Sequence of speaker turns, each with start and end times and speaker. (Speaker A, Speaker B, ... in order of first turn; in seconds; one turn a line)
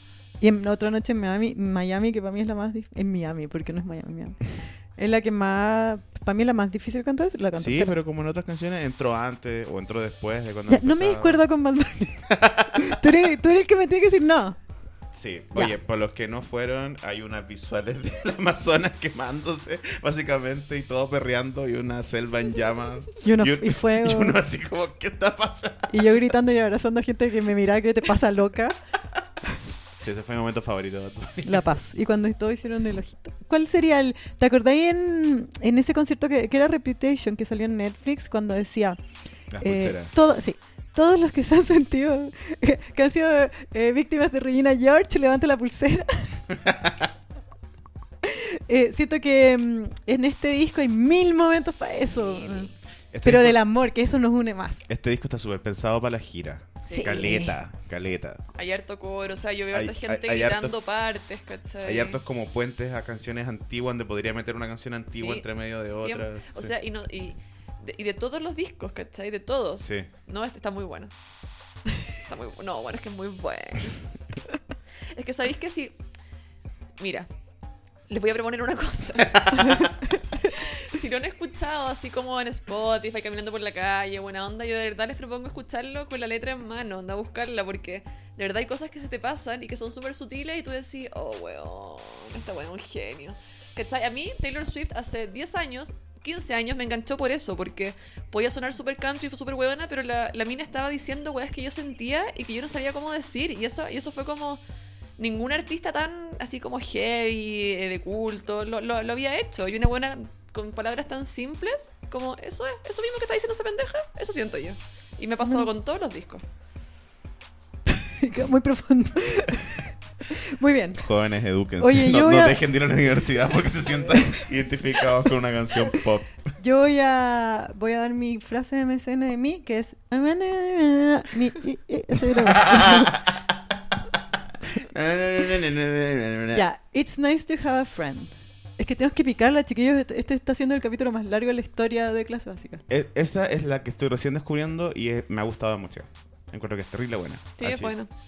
Speaker A: 0.4-8.0
Speaker B: 7.5-11.4
Speaker A: 10.7-14.6
Speaker B: 12.3-12.9
Speaker B: 15.1-26.1
Speaker A: 23.2-24.4
Speaker A: 25.9-28.8
Speaker B: 30.0-31.7
Speaker A: 31.4-39.0
Speaker B: 39.5-40.1
Speaker A: 39.6-46.4
Speaker B: 46.5-47.1
Speaker A: 48.2-52.7
Speaker C: 52.1-52.7
Speaker B: 53.1-53.6
Speaker A: 53.2-54.8
Speaker B: 54.9-58.4
Speaker C: 56.8-57.2
Speaker A: 56.9-57.5
Speaker C: 58.5-62.2
Speaker B: 59.7-60.7
Speaker B: 61.8-66.7
Speaker C: 65.1-71.1
Speaker B: 69.8-70.1
Speaker C: 72.2-74.0
Speaker C: 75.1-76.0
Speaker C: 77.0-77.3
Speaker C: 78.1-79.9
Speaker C: 80.5-104.6
Speaker C: 105.2-116.4
Speaker A: 117.9-121.1
Speaker B: 121.0-126.3
Speaker A: 121.8-122.6
Speaker A: 126.6-133.2
Speaker B: 132.3-133.3
Speaker B: 134.7-136.7
Speaker A: 136.5-142.8
Speaker B: 142.9-147.9
Speaker C: 147.6-148.1